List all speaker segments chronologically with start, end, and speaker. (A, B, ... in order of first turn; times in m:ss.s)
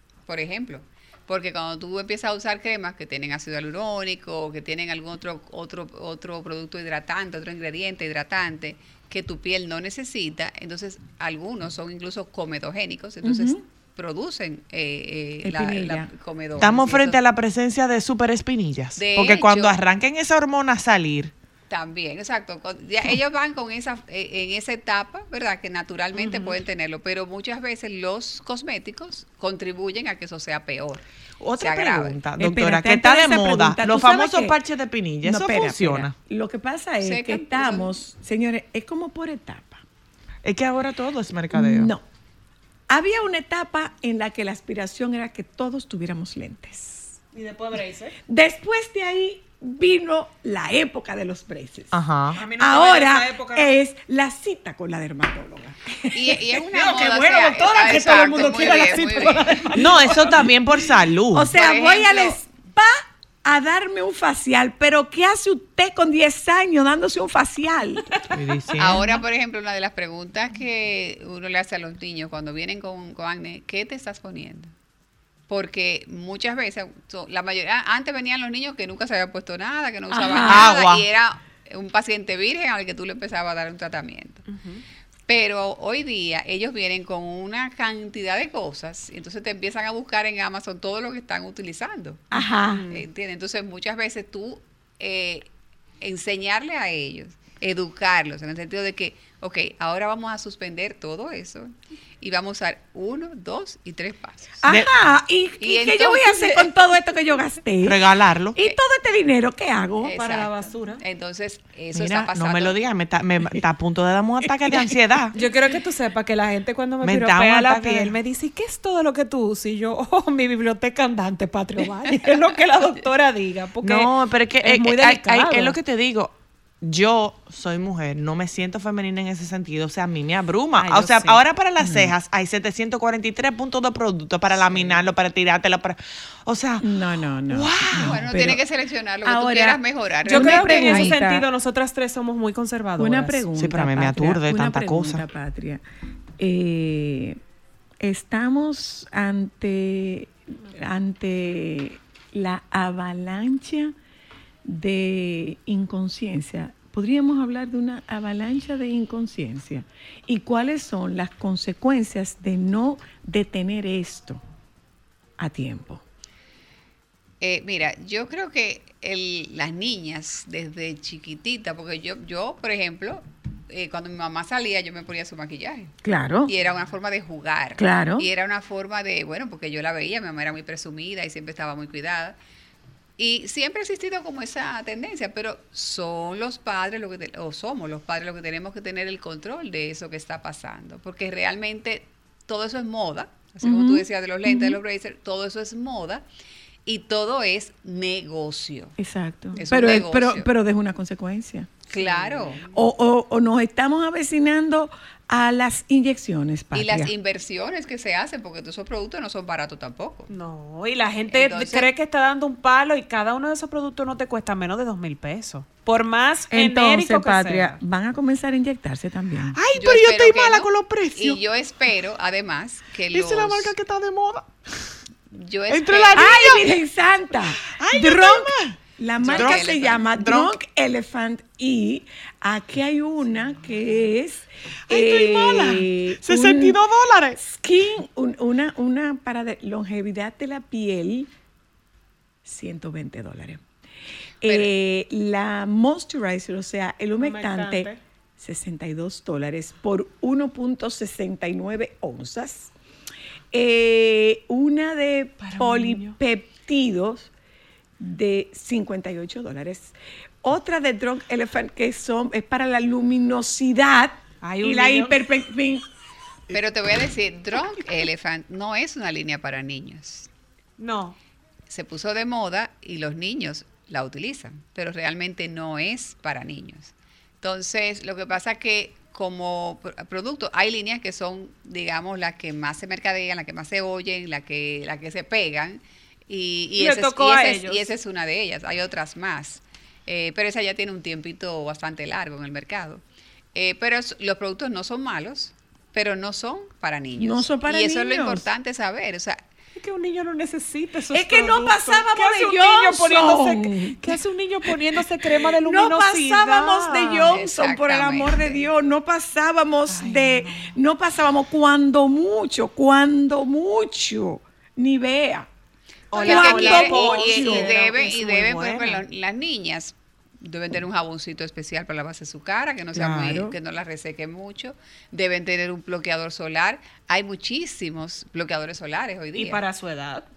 0:00.3-0:17.2 A
0:13.2-0:13.6 B
0:15.4-0:16.1 B
0:16.6-0:21.3 C
0:19.0-0:19.8 A
0:21.7-0:31.0 A
0:26.2-0:26.4 C
0:31.4-0:36.1 C
0:31.6-0:32.2 A
0:32.4-0:34.6 B
0:35.2-0:39.8 B
0:37.0-0:37.9 A
0:40.4-0:41.9 C
0:41.5-0:42.0 B
0:42.9-0:47.2 B
0:47.3-0:48.1 D
0:48.3-0:52.0 B
0:51.9-0:52.4 C
0:52.4-0:53.7 D
0:52.6-1:00.2 B
0:56.1-0:59.5 A
0:56.8-0:57.2 D
0:57.7-1:00.1 D
0:59.7-1:01.5 C
1:01.3-1:08.1 B
1:01.5-1:02.4 A
1:08.3-1:09.2 C
1:08.8-1:14.7 A
1:15.5-1:24.5 A
1:20.1-1:20.7 B
1:20.5-1:21.0 C
1:24.5-1:24.8 D
1:25.3-1:32.2 A
1:32.3-1:32.8 B
1:32.7-1:33.0 D
1:32.9-1:35.4 A
1:36.0-1:44.6 A
1:44.6-1:48.0 B
1:44.6-1:45.0 C
1:45.6-1:46.6 A
1:47.8-1:48.6 C
1:48.5-1:50.4 B
1:50.0-1:52.8 A
1:50.1-1:51.0 D
1:51.9-1:55.4 C
1:55.3-2:05.8 D
1:57.0-1:58.2 C
2:03.8-2:16.9 C
2:10.8-2:11.4 D
2:11.8-2:12.1 B
2:14.7-2:15.0 D
2:16.8-2:18.6 B
2:17.5-2:18.2 C
2:18.0-2:21.2 A
2:19.2-2:21.5 B
2:20.2-2:23.4 D
2:23.0-2:25.8 B
2:23.6-2:25.2 C
2:26.4-2:27.4 B
2:28.0-2:33.9 B
2:34.6-2:44.4 B
2:45.4-2:46.0 B
2:47.4-2:55.9 A
2:56.0-2:56.5 B
2:56.4-3:02.4 A
2:57.8-2:58.3 B
3:03.2-3:16.2 A
3:13.6-3:14.8 B
3:16.8-3:18.9 A
3:19.0-3:21.8 B
3:19.6-3:20.5 A
3:21.9-3:22.6 A
3:22.0-3:22.6 D
3:22.7-3:27.1 B
3:26.7-3:30.3 A
3:30.3-3:37.8 D
3:31.3-3:31.9 A
3:36.5-3:39.6 B
3:39.5-3:41.4 C
3:39.8-3:43.7 A
3:43.1-3:44.5 C
3:45.3-3:46.3 A
3:45.7-3:46.8 C
3:46.1-3:56.8 B
3:47.8-3:48.8 C
3:49.2-3:50.0 A
3:49.3-3:50.6 C
3:54.9-3:57.4 C
3:57.4-4:01.3 B
4:02.4-4:03.6 B
4:04.4-4:12.7 B
4:04.4-4:04.7 A
4:07.2-4:08.0 D
4:13.5-4:17.3 B
4:15.4-4:16.2 D
4:18.0-4:25.8 B
4:24.4-4:25.2 D
4:26.5-4:30.3 A
4:30.8-4:31.2 D
4:31.7-4:53.0 A
4:46.8-4:47.8 D
4:53.5-4:59.4 A
4:57.2-4:58.4 B
4:59.8-5:07.4 D
5:01.1-5:04.1 B
5:05.3-5:15.5 B
5:07.3-5:08.6 A
5:09.9-5:10.7 D
5:16.1-5:19.0 C
5:16.2-5:29.6 A
5:16.2-5:17.7 B
5:22.9-5:23.5 B
5:29.3-5:30.2 D